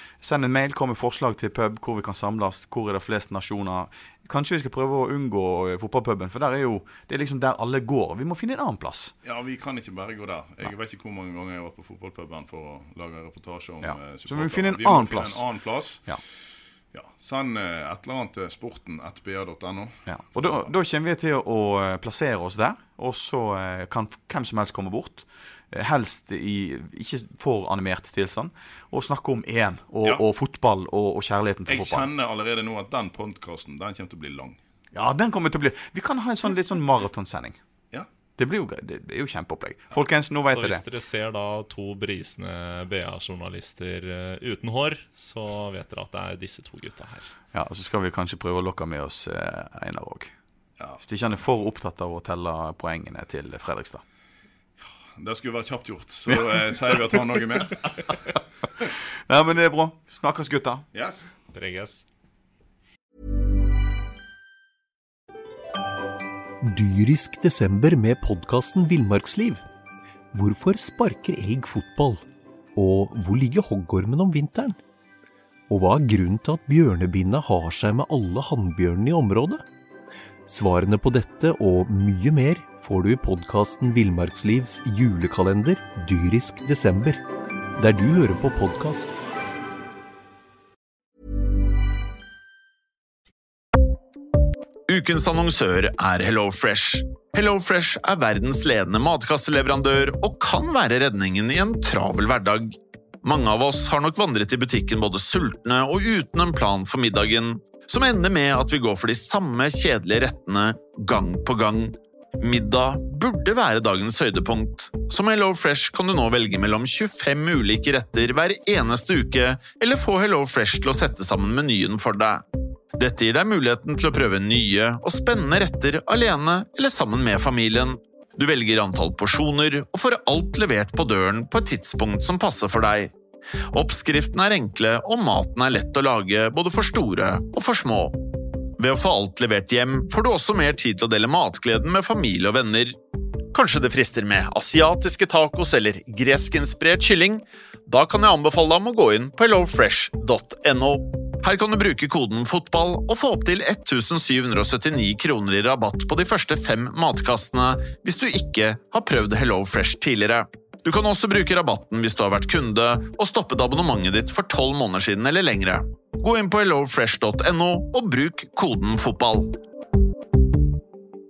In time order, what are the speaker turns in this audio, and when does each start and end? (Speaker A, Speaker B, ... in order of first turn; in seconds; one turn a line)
Speaker A: 0.2-9.1
Speaker B: 9.2-16.2
Speaker A: 13.8-15.4
Speaker B: 16.9-20.7
Speaker A: 20.1-32.1
Speaker B: 31.7-34.6
Speaker A: 34.9-37.6
Speaker A: 38.4-40.8
Speaker C: 40.5-47.3
Speaker A: 47.5-50.3
Speaker A: 51.0-54.0
Speaker B: 55.1-58.2
Speaker A: 56.3-57.2
Speaker A: 58.9-60.8
Speaker B: 60.9-61.3
Speaker C: 61.5-62.0
Speaker D: 66.6-69.6
Speaker D: 70.3-72.2
Speaker D: 72.8-74.8
Speaker D: 75.7-79.6
Speaker D: 80.5-87.2
Speaker D: 87.8-89.2
Speaker E: 94.9-122.4
Speaker E: 122.9-133.1
Speaker E: 133.7-138.2
Speaker E: 138.8-143.0
Speaker E: 143.5-169.6